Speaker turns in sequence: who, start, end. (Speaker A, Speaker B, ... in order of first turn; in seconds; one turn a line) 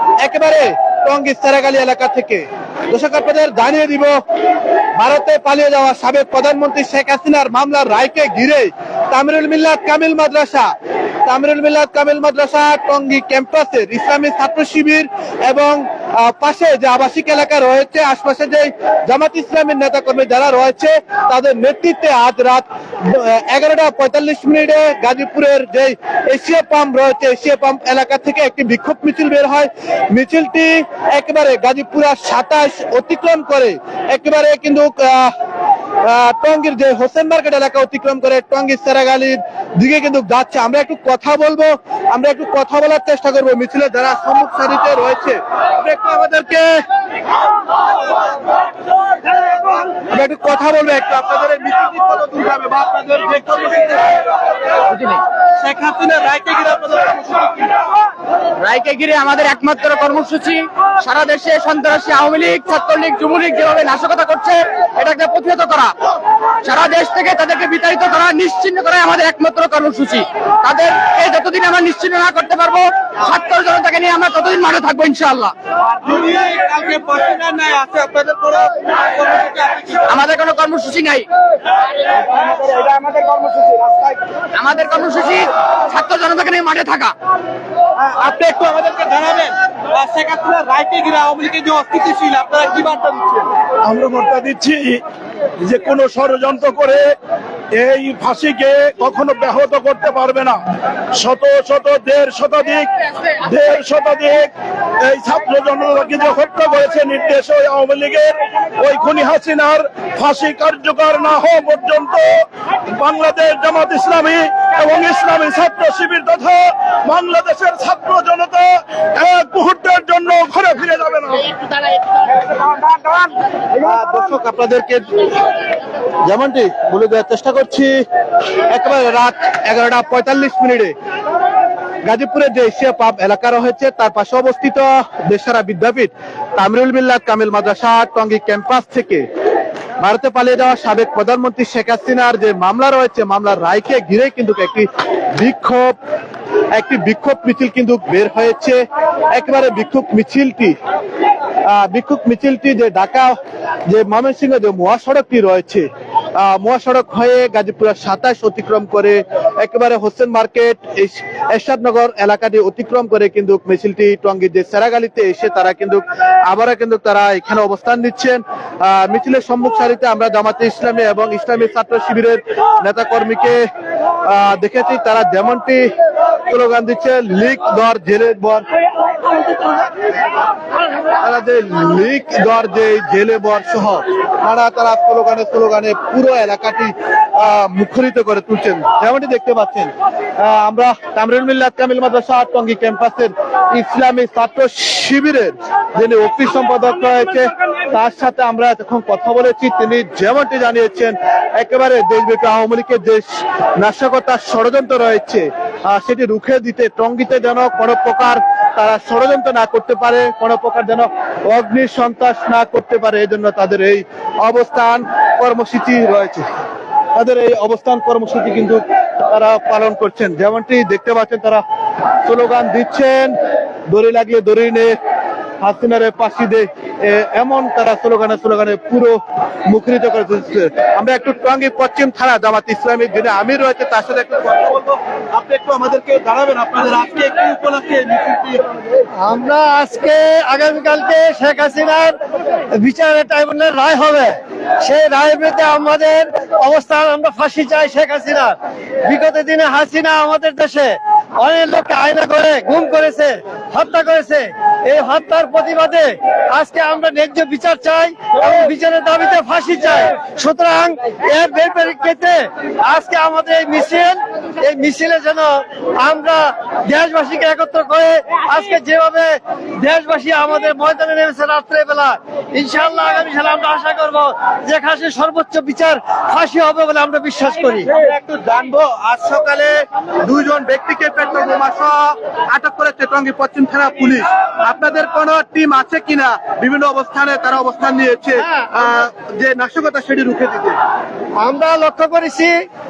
Speaker A: 0.2-4.1
Speaker A: 5.0-10.7
Speaker A: 11.2-35.3
Speaker A: 36.0-46.8
Speaker A: 50.0-54.2
Speaker B: 54.9-55.2
Speaker A: 55.6-57.7
Speaker B: 58.6-65.9
Speaker B: 66.6-75.5
Speaker A: 76.0-80.0
Speaker B: 80.0-81.3
Speaker A: 82.5-83.9
Speaker B: 84.5-87.1
Speaker A: 88.0-93.5
Speaker C: 93.8-95.0
Speaker C: 95.6-97.1
Speaker C: 97.7-100.6
Speaker C: 101.2-104.5
Speaker C: 105.0-121.5
Speaker A: 123.8-125.1
Speaker A: 126.2-128.0
Speaker A: 128.7-130.9
Speaker A: 132.0-139.2
Speaker A: 140.0-145.9
Speaker A: 146.7-148.8
Speaker A: 149.3-150.8
Speaker A: 151.7-173.6
Speaker A: 174.2-175.9
Speaker A: 176.5-178.7
Speaker A: 181.2-216.6
Speaker A: 217.1-221.6
Speaker A: 222.2-223.4
Speaker A: 223.9-224.9
Speaker A: 225.6-238.6
Speaker D: 239.2-242.1
Speaker D: 242.7-277.9
Speaker A: 277.9-290.8
Speaker D: 291.4-292.5